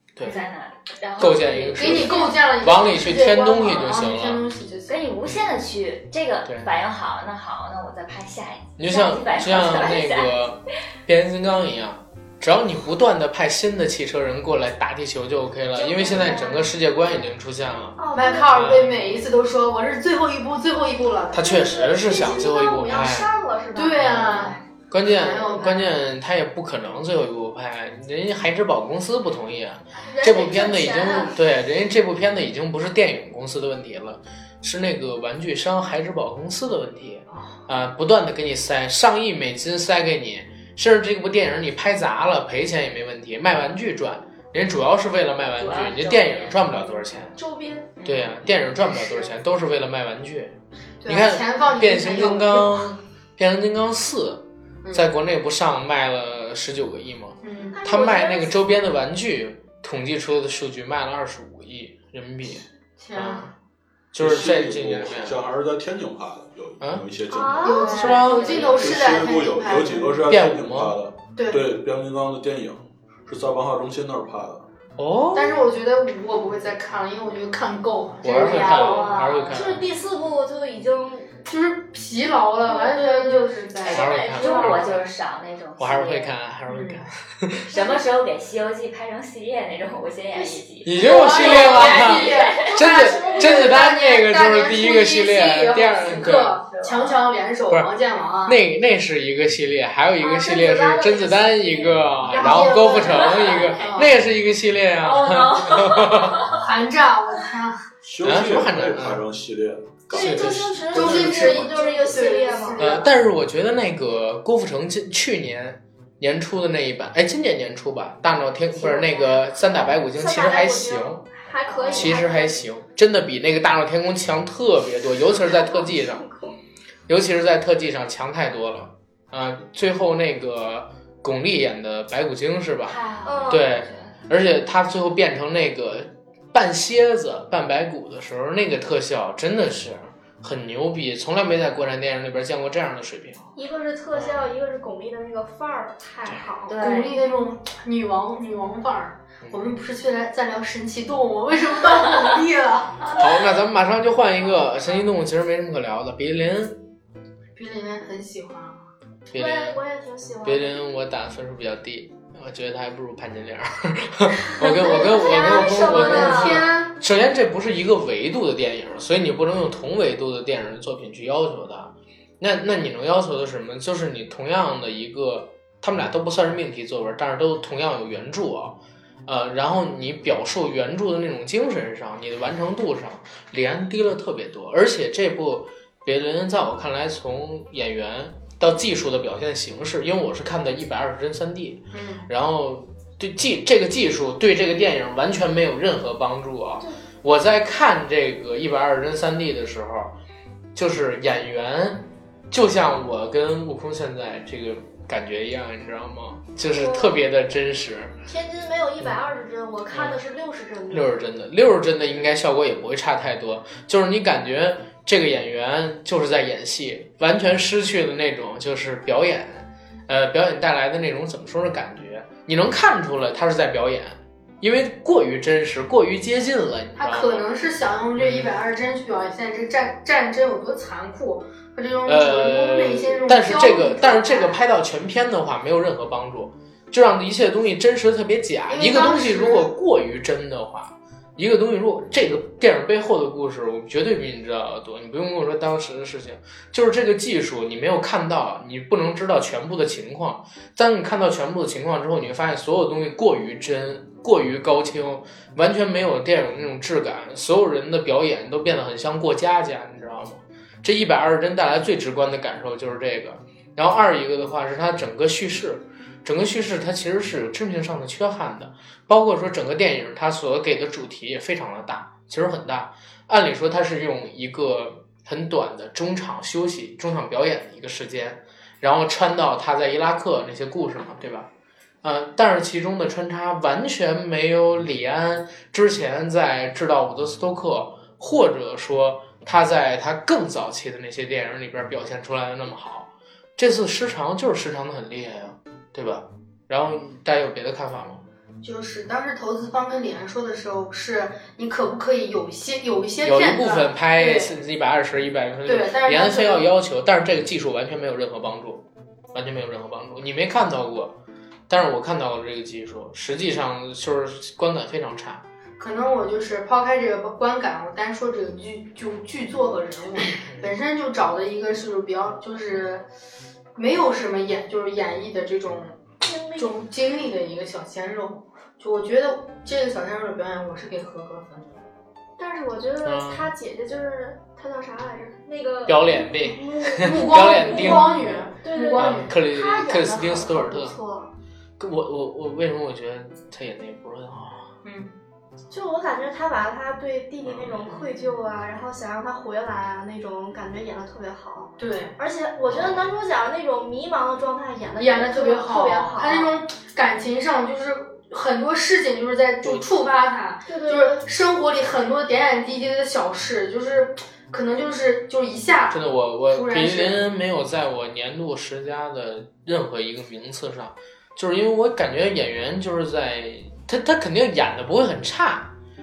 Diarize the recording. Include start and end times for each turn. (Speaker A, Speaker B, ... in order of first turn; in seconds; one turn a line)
Speaker A: 0.2-2.6
Speaker B: 1.2-4.4
Speaker C: 1.7-5.0
Speaker A: 4.9-10.5
Speaker B: 6.5-6.7
Speaker B: 8.8-19.1
Speaker A: 15.8-16.7
Speaker D: 18.0-18.7
Speaker C: 18.1-21.9
Speaker B: 21.3-23.3
Speaker D: 21.4-24.1
Speaker C: 23.8-26.0
Speaker B: 23.9-47.4
Speaker D: 30.1-31.4
Speaker A: 45.6-46.9
Speaker D: 47.4-47.9
Speaker B: 48.0-50.6
Speaker C: 48.7-49.4
Speaker C: 51.0-53.0
Speaker B: 51.1-63.5
Speaker C: 54.8-55.1
Speaker C: 57.4-57.8
Speaker D: 57.7-58.6
Speaker C: 63.0-63.5
Speaker B: 64.1-65.4
Speaker E: 64.2-67.8
Speaker D: 67.3-68.8
Speaker C: 67.6-70.3
Speaker A: 67.7-68.8
Speaker B: 67.9-69.0
Speaker E: 68.6-74.7
Speaker B: 70.3-71.0
Speaker C: 71.4-71.7
Speaker B: 75.0-75.6
Speaker C: 75.3-79.1
Speaker B: 78.2-79.9
Speaker A: 78.2-79.6
Speaker D: 78.4-81.3
Speaker C: 81.5-84.3
Speaker D: 82.7-85.0
Speaker A: 83.8-86.3
Speaker B: 83.9-85.0
Speaker B: 85.8-87.8
Speaker C: 86.7-87.0
Speaker A: 87.7-93.3
Speaker D: 90.3-93.8
Speaker B: 90.8-96.6
Speaker C: 91.0-98.6
Speaker A: 96.0-97.2
Speaker B: 98.5-106.5
Speaker D: 100.2-103.2
Speaker C: 102.2-104.2
Speaker A: 105.0-106.6
Speaker C: 106.5-107.9
Speaker E: 108.0-111.0
Speaker B: 108.2-109.2
Speaker B: 110.1-111.6
Speaker D: 110.1-112.9
Speaker C: 110.9-113.1
Speaker B: 112.8-121.2
Speaker C: 118.8-119.9
Speaker D: 119.9-122.6
Speaker C: 121.7-122.2
Speaker B: 121.9-126.3
Speaker D: 125.3-126.6
Speaker B: 127.1-143.5
Speaker A: 132.9-134.2
Speaker D: 133.2-133.7
Speaker D: 143.6-146.8
Speaker B: 144.1-144.4
Speaker A: 146.7-147.2
Speaker C: 146.8-153.3
Speaker B: 153.1-156.8
Speaker C: 157.6-158.9
Speaker B: 159.3-159.8
Speaker D: 159.3-160.8
Speaker B: 160.4-200.2
Speaker C: 164.6-166.9
Speaker D: 164.6-166.7
Speaker C: 191.9-192.3
Speaker B: 200.8-208.1
Speaker D: 206.7-207.2
Speaker D: 208.3-211.2
Speaker B: 209.9-210.2
Speaker B: 210.9-227.6
Speaker C: 227.0-234.6
Speaker B: 228.2-228.5
Speaker B: 232.1-281.5
Speaker C: 238.7-239.7
Speaker B: 282.0-298.2
Speaker C: 298.6-304.6
Speaker B: 303.2-311.1
Speaker C: 305.7-306.7
Speaker B: 311.7-315.4
Speaker C: 315.8-323.1
Speaker B: 320.4-320.7
Speaker C: 323.8-326.0
Speaker D: 326.2-326.7
Speaker C: 326.6-331.8
Speaker D: 332.4-341.3
Speaker B: 333.0-333.5
Speaker B: 335.9-338.2
Speaker C: 336.9-339.3
Speaker B: 339.0-341.0
Speaker B: 341.8-344.7
Speaker C: 344.8-345.1
Speaker D: 345.7-356.5
Speaker B: 347.4-348.0
Speaker C: 351.8-352.2
Speaker B: 352.7-353.1
Speaker C: 355.0-367.2
Speaker D: 360.7-361.2
Speaker B: 365.9-375.7